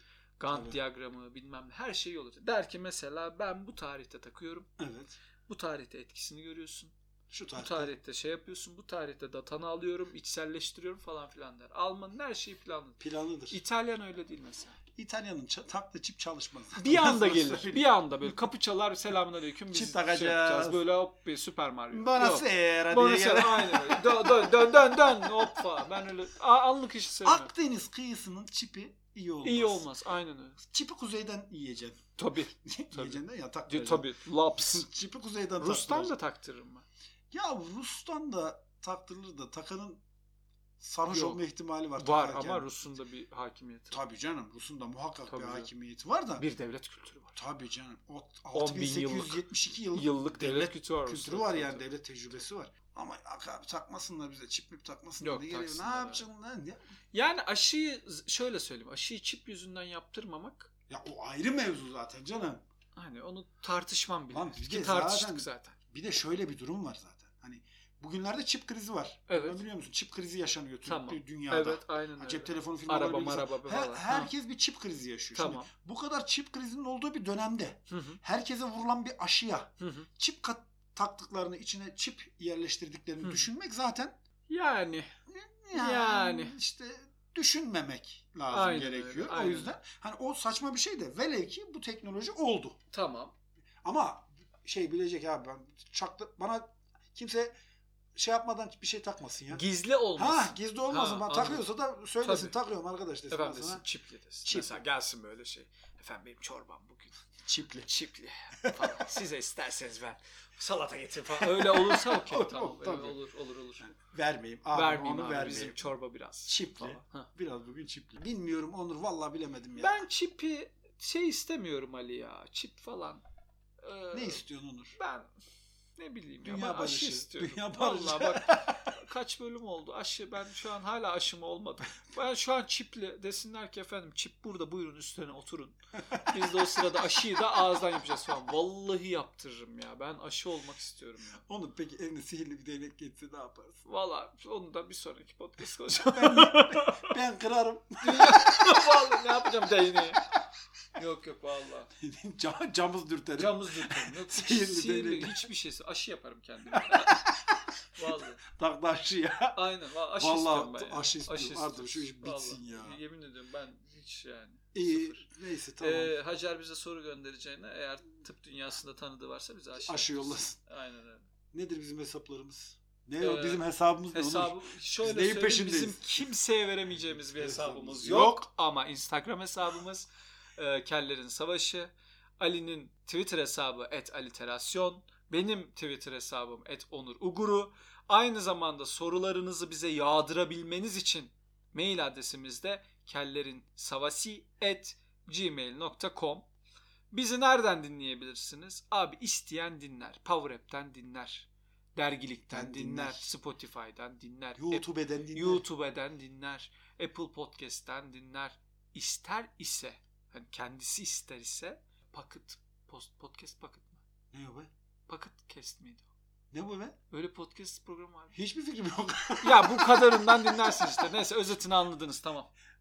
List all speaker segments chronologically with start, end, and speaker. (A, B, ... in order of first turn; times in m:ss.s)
0:00.4-0:04.7 A
0:00.5-0:00.8 B
0:04.8-0:05.2 B
0:05.5-0:06.9 A
0:07.3-0:07.9 B
0:07.5-0:14.8 A
0:13.0-0:13.6 B
0:15.0-0:17.9 B
0:16.8-0:27.5 A
0:19.7-0:20.9 B
0:21.9-0:25.6 B
0:27.1-0:29.9 B
0:29.4-0:30.6 A
0:30.6-0:32.0 B
0:32.2-0:34.8 A
0:32.5-0:36.1 B
0:35.6-0:36.8 A
0:37.3-0:40.0 B
0:40.8-0:42.7 B
0:41.1-0:41.4 A
0:42.0-0:44.0 A
0:43.9-0:46.4 B
0:45.3-0:45.7 A
0:46.4-0:47.4 A
0:47.3-0:56.8 B
0:48.5-0:51.8 A
0:55.2-0:56.3 A
0:57.1-1:00.7 A
1:00.9-1:02.6 B
1:02.9-1:05.8 A
1:04.3-1:24.2 B
1:09.3-1:09.6 A
1:10.8-1:14.3 A
1:15.3-1:15.7 A
1:17.9-1:18.2 A
1:19.8-1:20.1 A
1:23.2-1:23.5 A
1:24.5-1:25.1 A
1:25.3-1:32.8 B
1:25.7-1:26.5 A
1:28.5-1:29.8 A
1:32.9-1:33.3 A
1:33.8-1:37.5 B
1:38.1-1:39.6 B
1:39.5-1:41.6 A
1:40.2-1:43.8 B
1:42.2-1:42.6 A
1:43.3-1:47.2 A
1:44.4-1:44.8 B
1:47.4-1:47.9 B
1:47.8-1:53.9 A
1:48.6-1:49.0 B
1:51.4-1:53.2 B
1:53.8-1:55.8 B
1:54.7-1:57.3 A
1:56.4-2:00.0 B
1:59.8-2:03.2 A
2:03.8-2:04.4 A
2:04.1-2:05.0 B
2:05.0-2:05.3 A
2:06.0-2:21.4 A
2:06.4-2:08.9 B
2:16.1-2:17.2 B
2:21.5-2:23.9 B
2:23.8-2:27.1 A
2:25.8-2:29.0 B
2:28.0-2:30.2 A
2:30.9-2:31.9 A
2:32.0-2:35.4 B
2:33.4-2:37.3 A
2:36.7-2:39.6 B
2:37.9-2:38.4 A
2:39.5-2:51.3 A
2:40.2-2:43.0 B
2:44.7-2:46.2 B
2:49.8-2:50.6 B
2:51.5-2:56.2 B
2:53.2-3:16.5 A
2:57.1-2:58.5 B
3:17.1-3:34.0 A
3:22.5-3:23.3 B
3:24.5-3:25.6 B
3:34.3-3:34.7 B
3:35.1-3:36.1 A
3:36.5-3:37.0 B
3:37.1-3:38.4 A
3:38.3-3:40.9 B
3:39.4-3:42.5 A